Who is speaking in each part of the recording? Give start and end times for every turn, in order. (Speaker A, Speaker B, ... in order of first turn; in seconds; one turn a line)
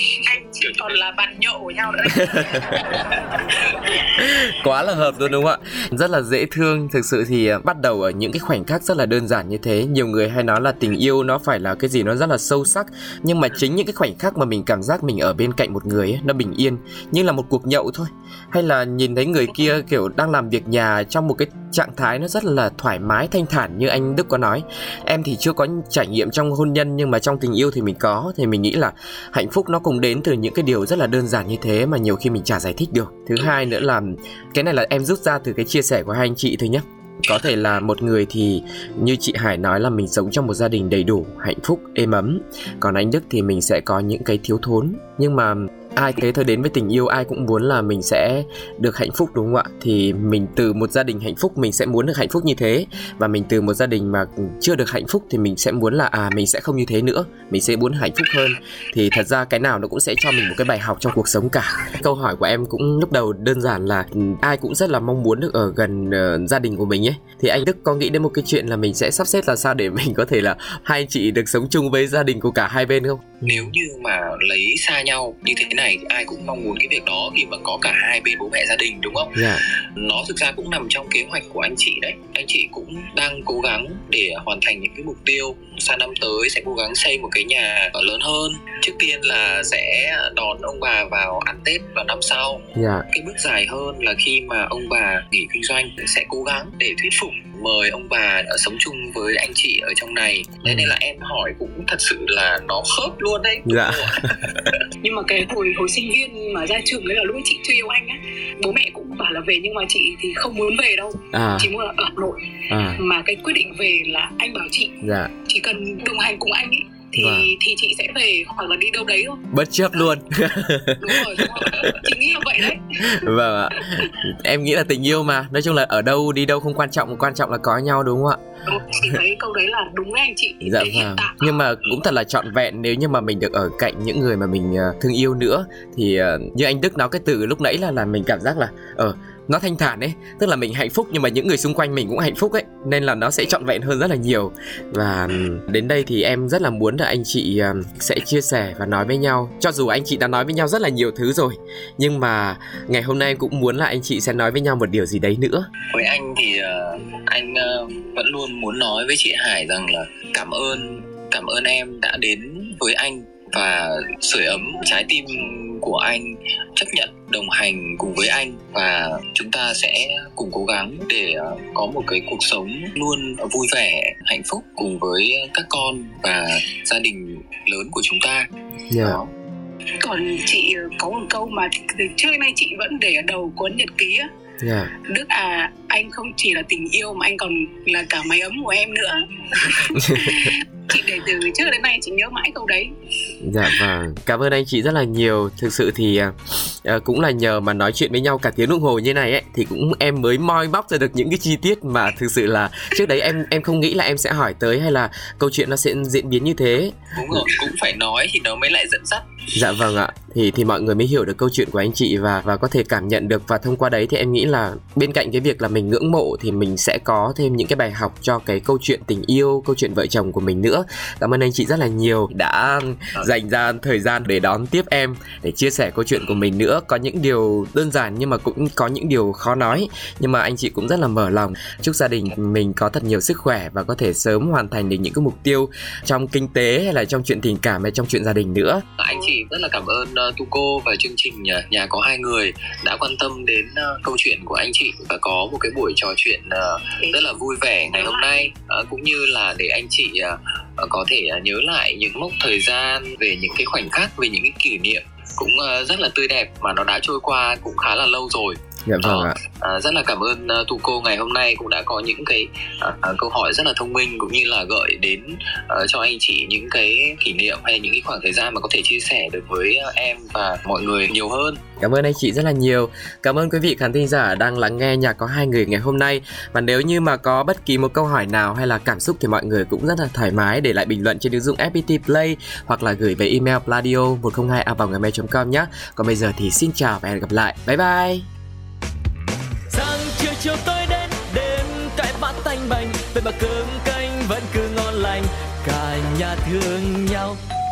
Speaker A: 0.2-4.0
Speaker B: 2.1-2.7
Speaker B: 4.2-73.7
Speaker C: 73.4-104.8
Speaker B: 79.3-79.6
Speaker B: 92.8-93.1
Speaker B: 100.7-100.9
Speaker B: 103.7-104.4
Speaker A: 105.0-119.5
Speaker B: 111.3-111.7
Speaker B: 112.7-113.0
Speaker B: 115.0-115.3
Speaker B: 117.2-117.5
Speaker B: 119.5-122.0
Speaker A: 121.0-123.2
Speaker B: 123.0-128.4
Speaker A: 123.8-124.2
Speaker A: 128.7-131.6
Speaker B: 130.6-155.7
Speaker C: 155.9-179.3
Speaker B: 178.9-179.2
Speaker A: 180.0-184.3
Speaker B: 184.6-184.9
Speaker A: 185.1-192.9
Speaker B: 189.9-190.5
Speaker B: 193.4-207.5
Speaker C: 207.1-209.3
Speaker B: 209.6-238.8
Speaker C: 239.0-271.7
Speaker A: 247.9-248.3
Speaker B: 258.9-259.4
Speaker B: 271.8-288.3
Speaker D: 289.7-297.4